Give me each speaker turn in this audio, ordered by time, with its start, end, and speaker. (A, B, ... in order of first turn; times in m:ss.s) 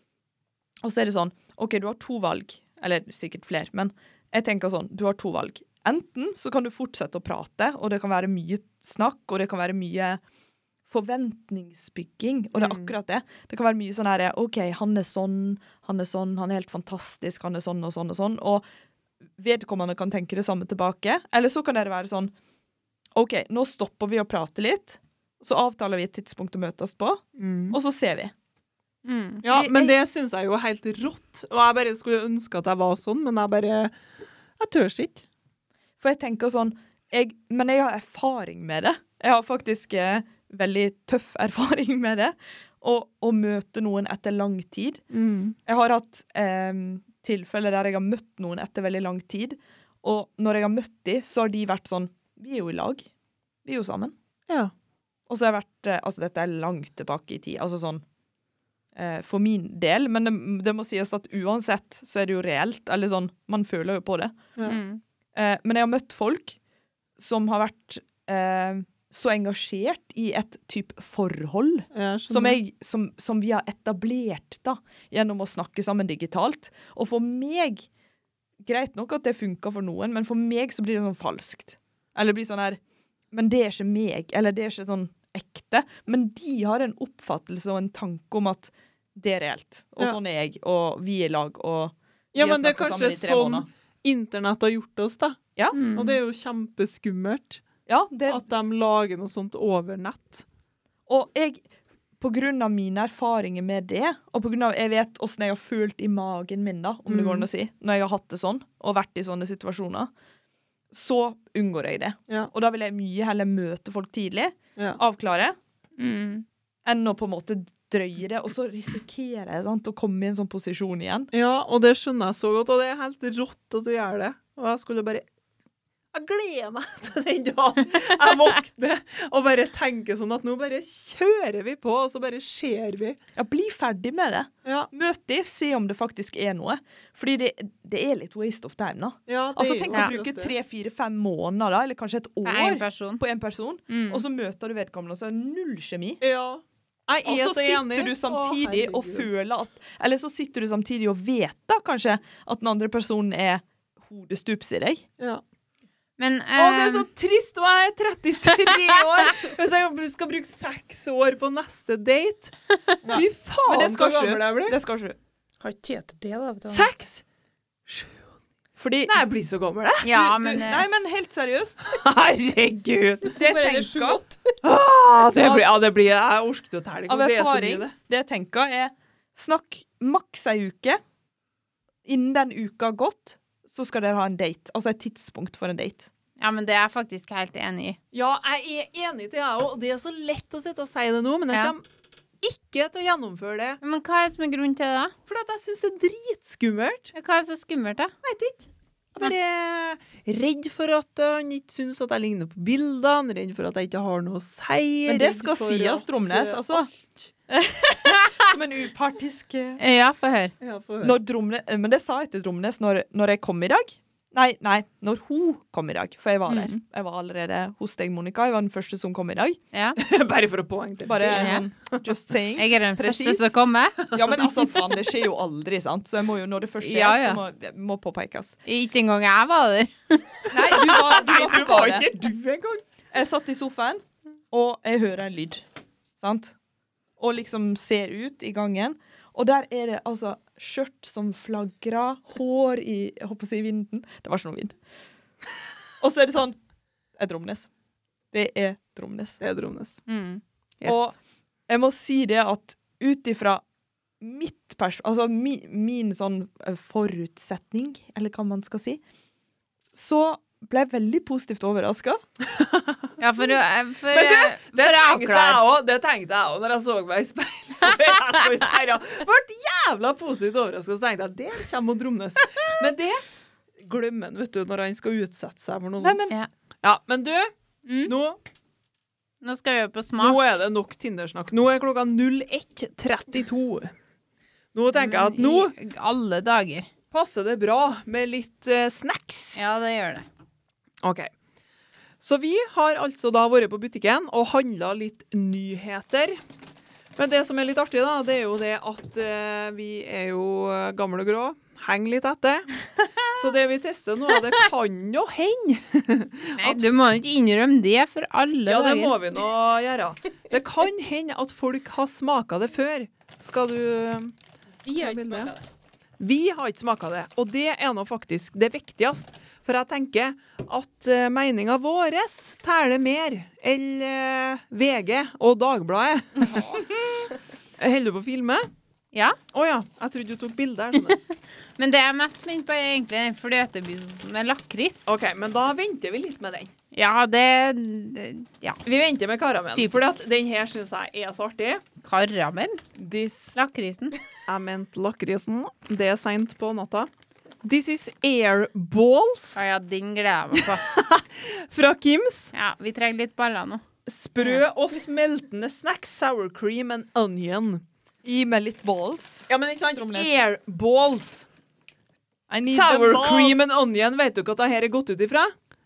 0:00.8-0:10.2 A
0:10.9-0:18.6 A
0:12.5-0:12.9 B
0:19.4-0:22.3 A
0:23.1-0:28.3 A
0:27.4-0:27.8 B
0:29.0-0:29.4 C
0:29.4-0:34.0 B
0:29.4-0:30.0 A
0:34.6-0:35.2 B
0:36.0-0:45.0 A
0:45.1-0:45.6 B
0:45.6-0:53.1 A
0:53.6-0:54.1 A
0:54.5-0:54.7 B
0:55.3-0:58.0 A
0:58.9-1:04.4 A
1:04.6-1:05.0 C
1:05.3-1:06.6 A
1:07.2-1:17.9 A
1:11.9-1:12.6 B
1:18.6-1:22.8 A
1:23.3-1:33.7 A
1:32.3-1:35.4 B
1:35.7-1:36.2 C
1:35.9-1:37.6 B
1:37.9-1:38.4 A
1:38.3-1:40.4 B
1:41.1-1:41.6 A
1:42.2-1:50.1 A
1:47.1-1:47.5 B
1:50.9-1:55.6 A
1:56.0-1:56.4 C
1:56.8-2:01.3 A
2:01.3-2:05.2 B
2:06.1-2:13.2 B
2:13.4-2:26.2 A
2:19.3-2:20.5 B
2:22.4-2:23.2 C
2:23.9-2:24.2 C
2:26.2-2:29.3 B
2:27.2-2:35.0 A
2:36.2-2:37.1 C
2:36.6-2:42.5 B
2:43.0-2:44.8 B
2:43.1-2:45.2 A
2:45.6-2:46.9 D
2:46.7-2:47.2 B
2:47.8-2:48.2 B
2:48.8-2:49.2 A
2:49.0-2:50.2 B
2:50.0-2:50.8 C
2:50.1-2:51.8 A
2:51.9-2:53.3 B
2:53.2-2:54.6 D
2:53.3-2:54.2 A
2:54.6-2:57.9 B
2:55.4-2:55.7 A
2:57.1-3:01.0 A
3:02.0-3:06.1 A
3:06.4-3:08.0 C
3:08.1-3:11.8 B
3:12.4-3:13.8 B
3:13.8-3:15.1 C
3:15.3-3:17.1 B
3:17.1-3:18.1 C
3:18.2-3:27.2 B
3:25.1-3:26.9 A
3:27.5-3:29.8 A
3:29.8-3:30.5 C
3:30.6-3:31.2 B
3:31.0-3:39.6 A
3:36.5-3:36.8 C
3:39.7-3:40.0 C
3:40.0-3:42.1 B
3:41.0-3:43.5 A
3:41.3-3:41.6 C
3:42.6-3:44.1 C
3:44.0-3:44.6 B
3:44.1-3:48.6 A
3:46.8-3:47.4 C
3:48.6-3:51.0 C
3:50.5-3:52.1 A
3:50.6-3:52.8 B
3:53.1-3:55.6 A
3:56.2-3:56.5 A
3:57.2-4:04.8 A
4:06.0-4:06.6 A
4:07.2-4:07.7 A
4:08.3-4:09.4 A
4:09.4-4:10.0 B
4:10.1-4:11.1 C
4:10.8-4:11.2 A
4:11.7-4:13.6 A
4:14.2-4:19.0 A
4:19.9-4:22.2 A
4:22.4-4:23.0 B
4:23.2-4:25.6 C
4:24.1-4:33.2 B
4:33.8-4:36.2 B
4:36.0-4:36.4 A
4:36.8-4:37.5 B
4:37.8-4:38.1 C
4:38.0-4:38.4 B
4:39.4-4:40.5 C
4:40.2-4:43.9 B
4:44.7-4:45.7 B
4:44.9-4:46.9 C
4:47.1-4:49.6 B
4:49.6-4:50.2 C
4:51.0-4:51.3 B
4:52.2-4:56.4 B
4:57.2-5:02.7 B
5:03.3-5:06.8 B
5:06.6-5:09.2 C
5:08.7-5:14.3 B
5:14.8-5:15.6 D
5:15.0-5:15.5 B
5:16.2-5:26.8 B
5:26.4-5:27.3 A
5:27.8-5:28.7 B
5:29.5-5:31.2 B
5:31.8-5:35.1 C
5:35.0-5:36.7 B
5:36.9-5:38.8 C
5:38.8-5:41.8 B
5:39.7-5:40.1 C
5:42.0-5:42.8 C
5:43.0-5:43.6 B
5:43.5-5:44.2 C
5:44.4-5:47.1 B
5:47.6-5:49.6 B
5:49.5-5:50.8 C
5:50.5-5:52.5 B
5:52.5-5:53.8 C
5:54.0-5:57.8 B
5:58.2-6:00.3 A
5:59.5-6:01.5 B
6:02.5-6:03.6 A
6:02.6-6:05.5 B